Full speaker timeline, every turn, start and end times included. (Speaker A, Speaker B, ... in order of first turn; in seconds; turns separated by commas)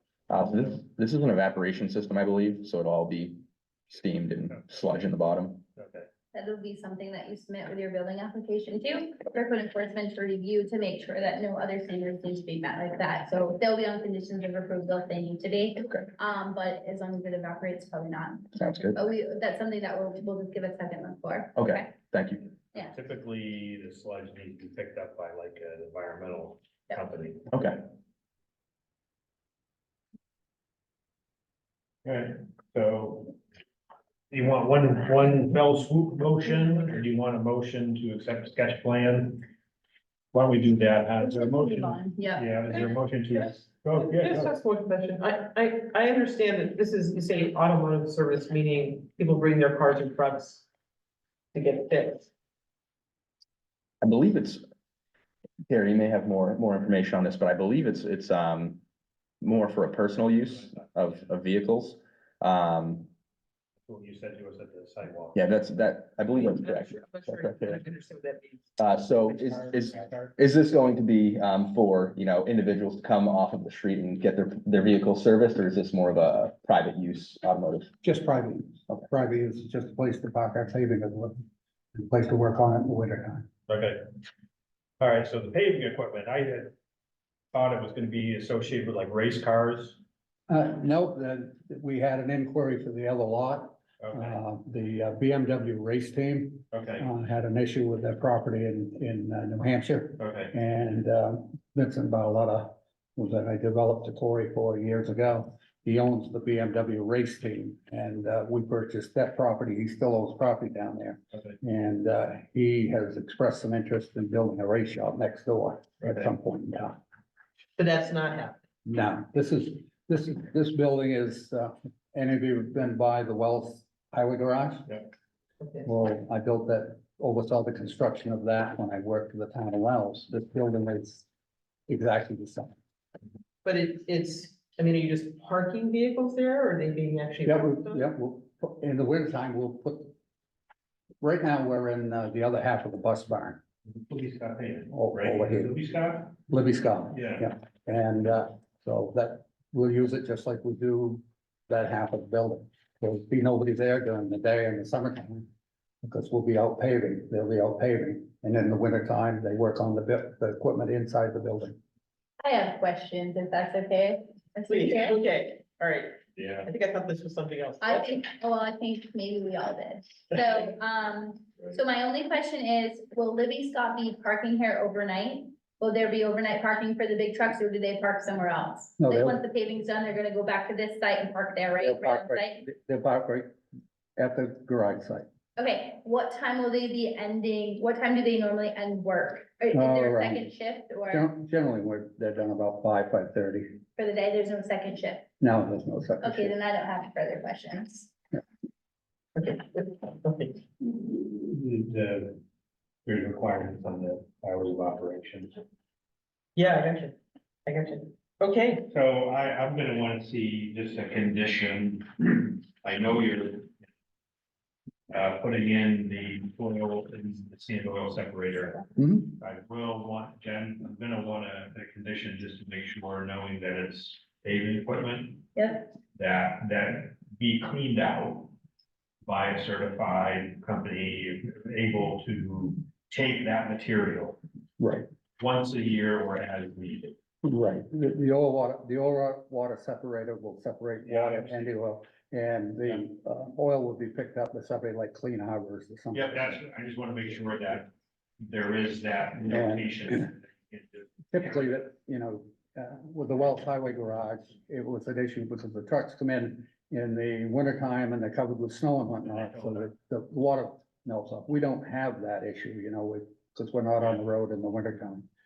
Speaker A: 0.3-5.6, Speaker B: 5.8-6.1, Speaker C: 6.3-21.9, Speaker A: 18.6-19.0, Speaker A: 21.6-22.5, Speaker B: 22.8-27.4, Speaker A: 27.5-27.8, Speaker B: 32.0-33.3, Speaker B: 34.3-39.4, Speaker B: 40.3-44.5, Speaker C: 41.2-42.5, Speaker D: 43.9-50.7, Speaker D: 51.5-52.3, Speaker A: 54.0-54.6, Speaker A: 55.7-58.8, Speaker A: 59.4-63.1, Speaker B: 60.2-61.3, Speaker B: 63.9-65.4, Speaker A: 65.3-67.8, Speaker D: 66.5-68.8, Speaker A: 68.8-77.9, Speaker B: 69.4-70.3, Speaker E: 78.0-81.4, Speaker E: 81.9-83.5, Speaker B: 83.7-84.1, Speaker B: 85.0-86.7, Speaker B: 87.5-90.0, Speaker E: 90.5-117.0, Speaker B: 94.0-94.4, Speaker B: 96.7-97.1, Speaker B: 100.2-100.5, Speaker D: 117.8-118.6, Speaker E: 118.8-125.0, Speaker D: 125.6-125.9, Speaker E: 125.8-131.2, Speaker E: 131.9-132.7, Speaker D: 133.6-138.1, Speaker E: 137.4-140.1, Speaker E: 141.2-143.6, Speaker B: 143.9-146.3, Speaker E: 144.9-145.8, Speaker E: 146.3-155.5, Speaker B: 147.1-147.5, Speaker E: 156.0-161.8, Speaker C: 162.4-165.2, Speaker D: 164.6-168.3, Speaker B: 166.3-166.7, Speaker C: 167.8-182.6, Speaker E: 179.0-179.4, Speaker E: 181.8-183.6, Speaker E: 184.2-185.3, Speaker C: 185.6-191.3, Speaker E: 189.7-190.5, Speaker E: 191.1-193.8, Speaker C: 193.9-195.3, Speaker E: 195.4-196.5, Speaker C: 196.2-198.1, Speaker D: 199.3-200.6, Speaker B: 201.0-202.4, Speaker B: 203.0-205.6, Speaker D: 206.6-208.9, Speaker B: 208.9-213.8, Speaker B: 215.1-225.4, Speaker E: 218.9-219.3, Speaker C: 225.5-225.9, Speaker B: 226.1-228.5, Speaker B: 229.2-234.4, Speaker E: 234.8-235.1, Speaker B: 235.4-237.2, Speaker E: 237.4-246.6, Speaker B: 241.0-241.7, Speaker B: 246.1-251.2, Speaker E: 249.5-250.3, Speaker E: 251.3-265.2, Speaker B: 259.2-259.9, Speaker B: 264.0-264.2